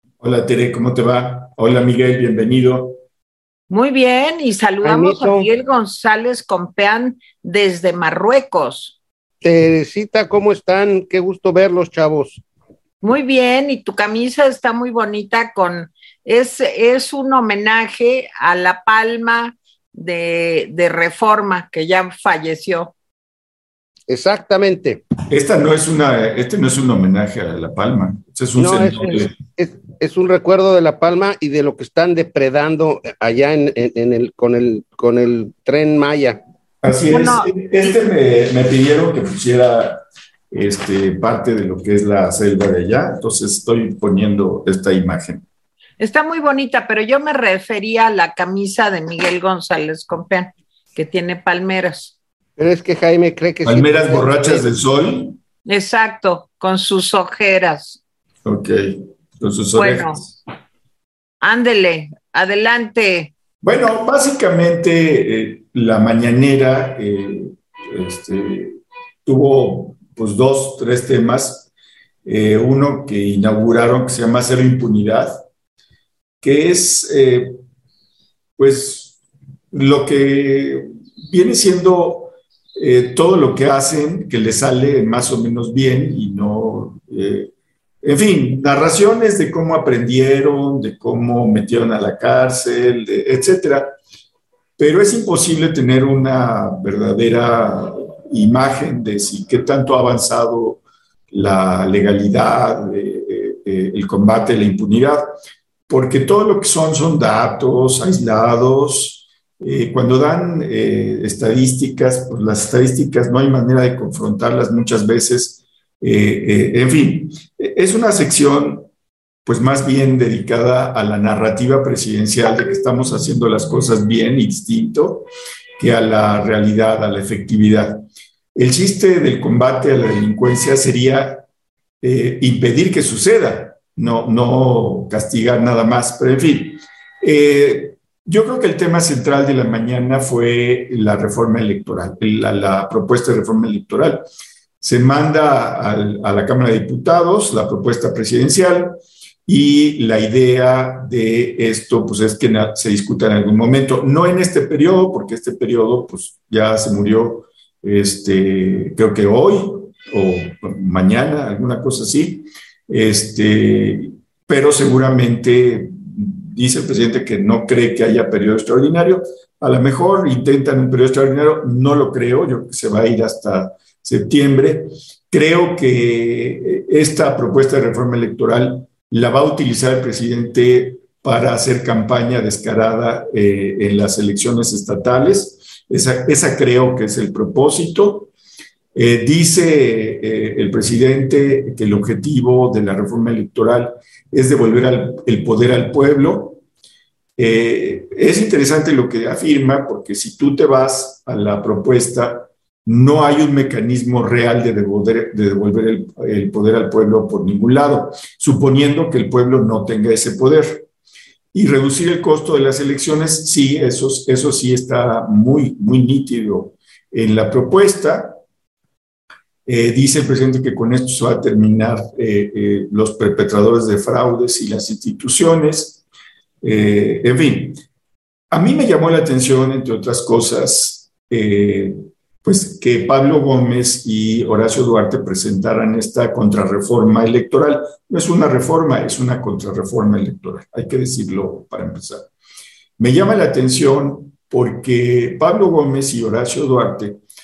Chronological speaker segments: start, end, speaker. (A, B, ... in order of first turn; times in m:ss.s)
0:00.2-0:03.0 A
0:03.7-0:09.0 B
0:04.8-0:05.5 C
0:09.4-0:12.4 C
0:13.0-0:22.9 B
0:24.1-0:25.0 C
0:25.3-0:29.3 A
0:28.6-0:36.4 C
0:36.8-0:40.0 A
0:37.1-0:38.0 B
0:40.5-0:45.4 A
0:46.0-0:52.2 B
0:52.6-0:54.7 C
0:53.6-0:55.4 A
0:55.6-0:58.0 B
0:58.4-1:00.3 A
0:59.8-1:00.2 B
1:01.4-1:03.3 B
1:03.6-1:11.7 A
1:12.2-1:15.4 A
1:16.4-1:17.6 A
1:18.6-1:19.2 A
1:19.7-1:27.5 A
1:28.0-1:34.0 A
1:34.8-1:45.2 A
1:45.9-1:58.9 A
1:59.5-2:05.3 A
2:05.8-2:08.0 A
2:08.6-2:11.4 A
2:12.0-2:24.2 A
2:24.8-3:08.3 A
3:08.9-3:16.6 A
3:17.4-3:30.9 A
3:31.5-3:38.4 A
3:39.7-3:46.0 A
3:46.6-3:47.8 A
3:48.5-4:02.3 A
4:03.0-4:07.2 A